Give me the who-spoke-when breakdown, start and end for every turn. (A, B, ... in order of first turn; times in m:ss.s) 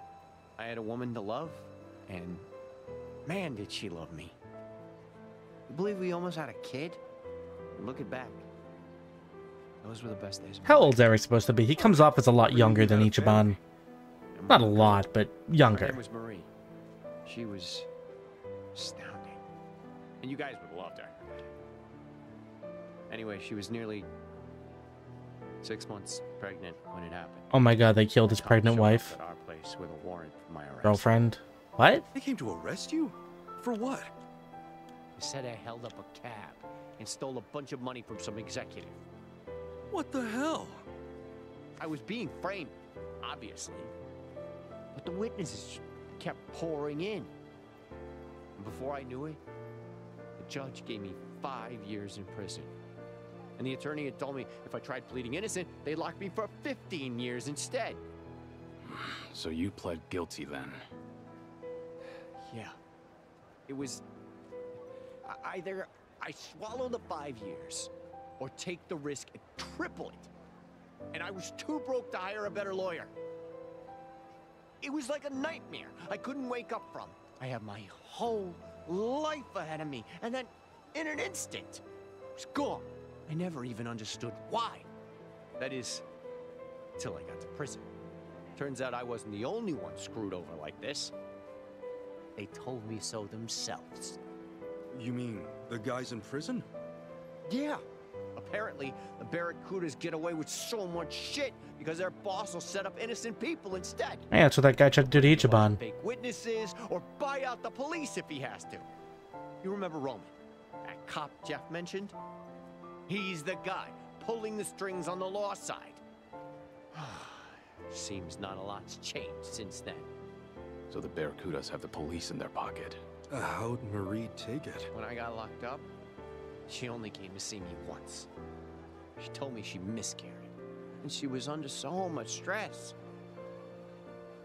0:00.6-0:02.4 A
0:03.2-0:04.3 A
0:05.7-0:07.0 A
0:07.7-0:08.4 A
0:09.8-0:11.1 A
0:10.6-0:13.6 B
0:11.8-0:13.6 C
0:14.3-0:15.0 A
0:14.5-0:16.0 B
0:15.6-0:16.5 A
0:17.2-0:17.9 A
0:18.7-0:19.4 A
0:20.2-0:21.2 A
0:23.1-0:24.1 A
0:25.6-0:27.5 A
0:27.5-0:29.1 B
0:28.2-0:31.1 A
0:30.8-0:32.0 B
0:32.1-0:34.1 C
0:35.2-0:39.0 A
0:39.9-0:40.8 C
0:41.8-0:43.9 A
0:44.9-0:47.3 A
0:48.6-0:49.4 A
0:50.4-0:52.7 A
0:53.6-0:58.0 A
0:58.8-1:00.8 D
1:02.4-1:02.8 A
1:03.7-1:04.0 A
1:05.2-1:10.3 A
1:11.1-1:13.1 A
1:14.8-1:21.8 A
1:22.4-1:24.9 A
1:25.6-1:26.0 A
1:27.0-1:27.9 A
1:28.6-1:31.1 A
1:32.4-1:34.2 A
1:34.9-1:36.6 C
1:37.4-1:37.8 A
1:38.4-1:44.3 A
1:44.3-1:45.8 B
1:45.0-1:48.9 A
1:49.6-1:52.2 A
1:53.1-1:56.0 A
1:56.9-2:00.1 A
2:00.9-2:03.0 D
2:03.3-2:04.9 C
2:04.9-2:05.9 A
2:06.7-2:08.3 A
2:09.2-2:12.9 A